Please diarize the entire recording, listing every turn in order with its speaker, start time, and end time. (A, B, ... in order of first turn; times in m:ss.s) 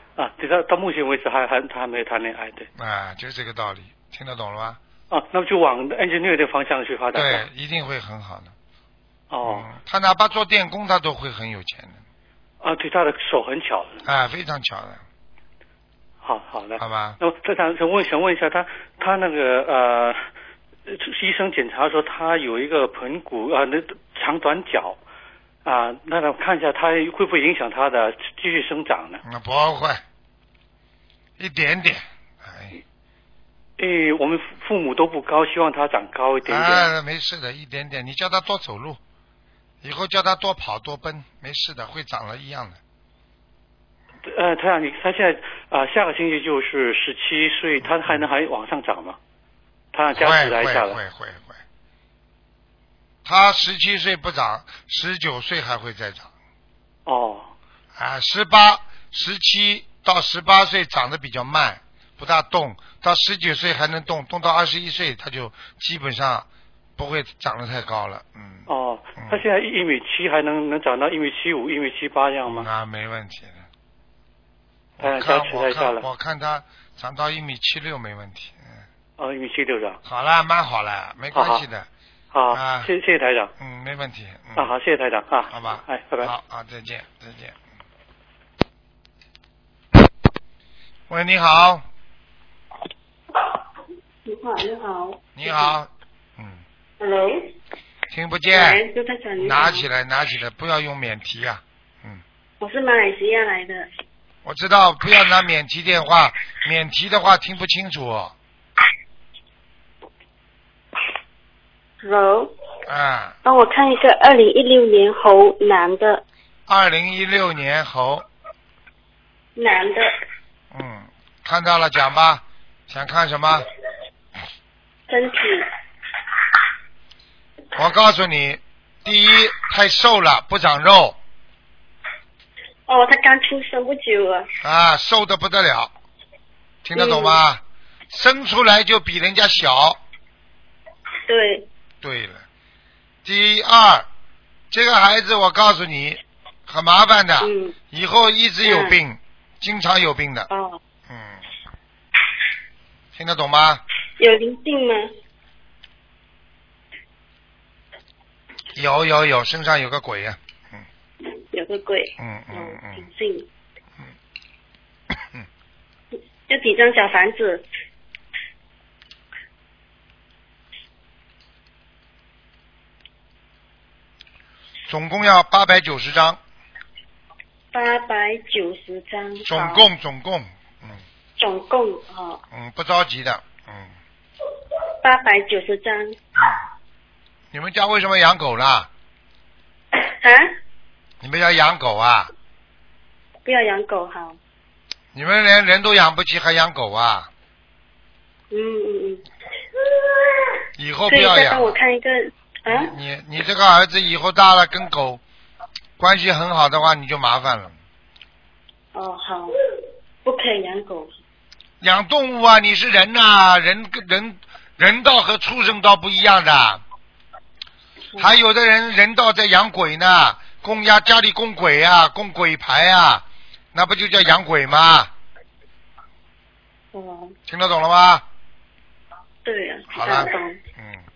0:00.2-0:02.7 A
0:02.8-0:04.8 B
0:05.1-0:07.4 A
0:07.1-0:08.5 B
0:09.3-0:09.7 A
0:09.4-0:12.0 B
0:12.6-0:14.0 A
0:14.0-0:15.0 B
0:16.2-0:20.3 A
0:16.8-0:17.2 B
0:20.9-0:25.0 A
0:25.6-0:29.2 A
0:29.2-0:30.0 B
0:31.4-0:32.8 B
0:33.8-0:36.9 A
0:36.5-0:39.0 B
0:39.8-0:42.8 B
0:44.2-0:49.2 A
0:49.9-0:51.0 A
0:50.1-0:51.6 B
0:53.2-0:56.3 B
0:57.1-0:57.5 A
0:58.0-1:09.4 B
1:08.7-1:12.7 A
1:12.5-1:13.7 B
1:15.0-1:18.8 B
1:15.0-1:16.1 A
1:19.2-1:20.0 A
1:20.1-1:21.9 B
1:21.3-1:21.6 A
1:22.3-1:23.5 A
1:22.5-1:22.9 B
1:23.6-1:24.7 B
1:24.6-1:26.3 A
1:25.5-1:27.6 B
1:31.1-1:31.8 B
1:34.3-1:35.8 C
1:35.4-1:36.6 B
1:37.0-1:37.5 C
1:38.1-1:38.8 B
1:38.5-1:39.9 C
1:39.4-1:42.2 B
1:42.6-1:43.9 C
1:44.4-1:48.4 B
1:52.0-1:52.5 C
1:52.9-1:53.4 B
1:53.4-1:56.2 C
1:56.7-1:58.3 B
1:59.6-2:00.1 C
2:00.7-2:03.6 B
2:05.1-2:05.7 C
2:07.8-2:11.2 B
2:12.9-2:14.5 C
2:14.6-2:15.9 B
2:16.8-2:20.0 B
2:17.0-2:17.4 C
2:21.3-2:21.7 C
2:22.0-2:22.4 B
2:23.2-2:24.1 B
2:24.7-2:30.5 B
2:27.4-2:27.8 C
2:28.6-2:29.0 C
2:30.5-2:30.8 C
2:31.1-2:31.4 B
2:33.2-2:33.8 B
2:34.2-2:35.1 C
2:38.7-2:40.8 B
2:41.5-2:43.5 C
2:42.2-2:43.0 B
2:46.5-2:47.7 C
2:54.9-2:56.4 B
2:57.7-2:59.9 C
2:59.4-3:01.0 B
3:01.4-3:02.4 C
3:02.5-3:04.0 B
3:05.0-3:06.2 C
3:07.5-3:08.9 B
3:10.0-3:10.6 C
3:11.2-3:12.3 B
3:13.4-3:14.4 C
3:15.1-3:17.3 B
3:18.5-3:19.2 C
3:20.8-3:21.8 B
3:21.1-3:22.9 C
3:22.7-3:25.2 B
3:26.0-3:27.8 B
3:28.9-3:29.6 C
3:30.2-3:31.2 C
3:31.8-3:36.8 B
3:38.2-3:45.1 B
3:46.9-3:47.4 C
3:47.5-3:48.2 B
3:49.4-3:50.6 C
3:49.9-3:51.0 B